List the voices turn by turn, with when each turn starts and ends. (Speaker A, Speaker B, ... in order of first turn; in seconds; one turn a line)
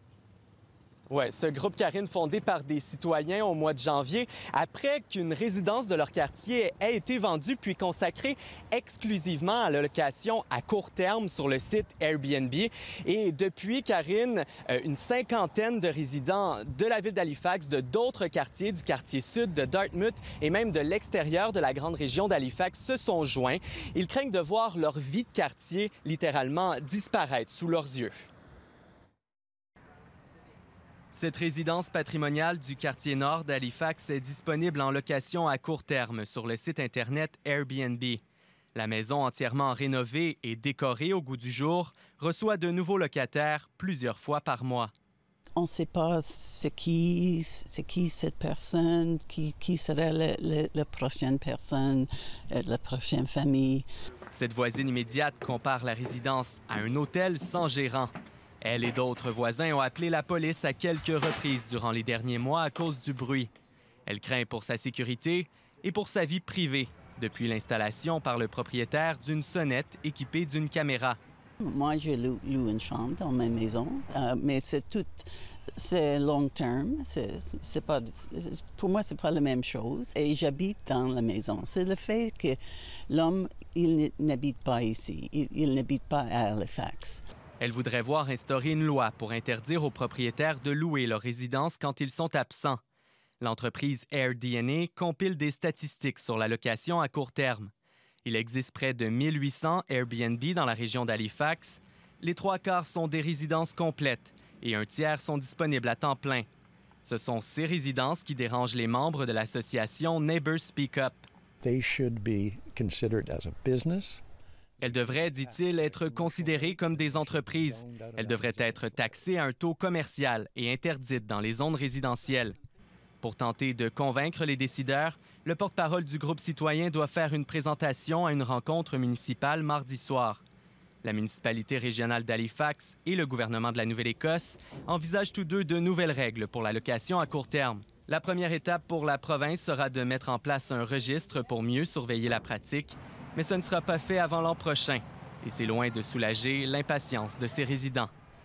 Speaker A: 1.1-28.1
Speaker A: 31.1-38.2
Speaker A: 38.8-44.9
Speaker B: 45.6-53.9
Speaker A: 54.3-63.5
Speaker A: 64.1-71.2
Speaker B: 71.6-82.6
Speaker B: 83.1-87.2
Speaker A: 87.6-92.8
Speaker A: 93.4-97.7
Speaker A: 98.2-106.5
Speaker A: 107.0-111.3
Speaker C: 111.6-114.2
Speaker C: 114.8-119.2
Speaker A: 114.8-122.5
Speaker A: 123.2-130.4
Speaker A: 131.0-148.1